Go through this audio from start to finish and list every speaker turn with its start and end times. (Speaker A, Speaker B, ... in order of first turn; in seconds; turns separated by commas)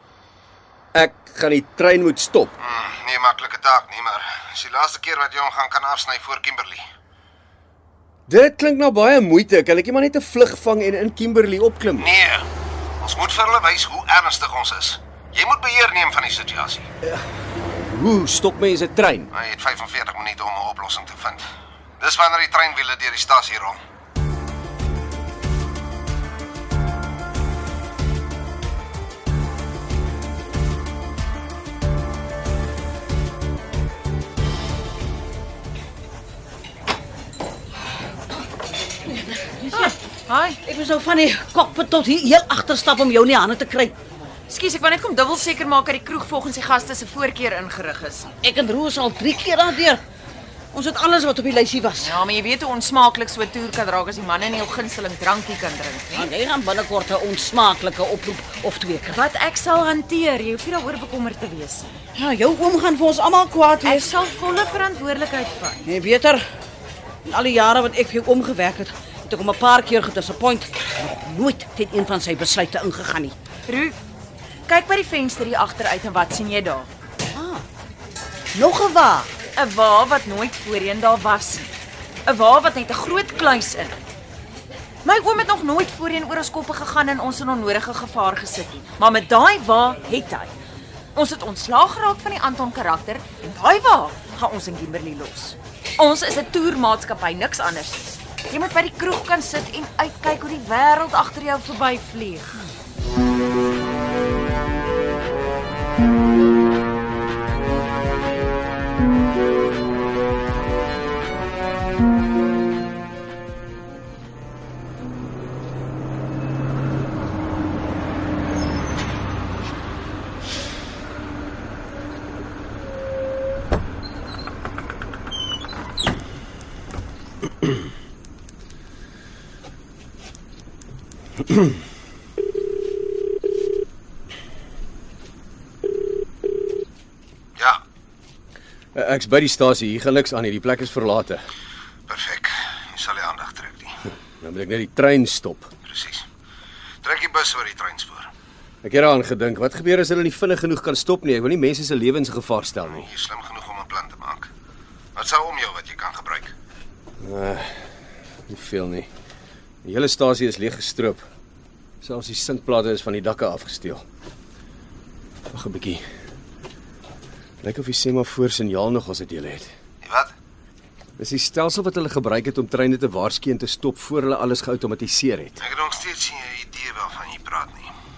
Speaker A: 0.9-2.5, Speaker B: 2.6-6.8, Speaker A: 8.3-12.1, Speaker B: 12.0-12.5, Speaker B: 13.0-16.9, Speaker A: 17.9-19.3, Speaker B: 19.3-21.4, Speaker B: 22.0-23.8, Speaker C: 39.1-39.9, Speaker D: 39.7-40.6, Speaker C: 40.6-44.0, Speaker D: 44.5-48.3, Speaker C: 48.4-50.0, Speaker C: 50.7-52.2, Speaker D: 52.0-56.3, Speaker C: 56.1-59.2, Speaker D: 59.1-62.0, Speaker C: 62.1-64.0, Speaker D: 63.8-65.9, Speaker C: 65.8-66.4, Speaker C: 67.2-73.3, Speaker D: 73.7-74.0, Speaker D: 74.7-76.9, Speaker C: 77.3-77.7, Speaker C: 78.5-79.3, Speaker D: 79.5-81.7, Speaker D: 82.2-84.0, Speaker D: 85.0-90.5, Speaker D: 91.2-102.7, Speaker A: 138.9-141.4, Speaker B: 142.1-143.9, Speaker A: 144.4-145.7, Speaker B: 145.9-146.2, Speaker B: 147.0-148.3, Speaker A: 148.8-153.1, Speaker B: 152.9-154.5, Speaker B: 155.2-156.5, Speaker A: 157.2-157.7, Speaker A: 158.5-159.1, Speaker A: 159.8-161.2, Speaker A: 162.0-164.0, Speaker A: 165.5-166.0, Speaker A: 167.6-169.7, Speaker B: 170.0-170.3, Speaker A: 171.2-175.6, Speaker B: 175.6-177.9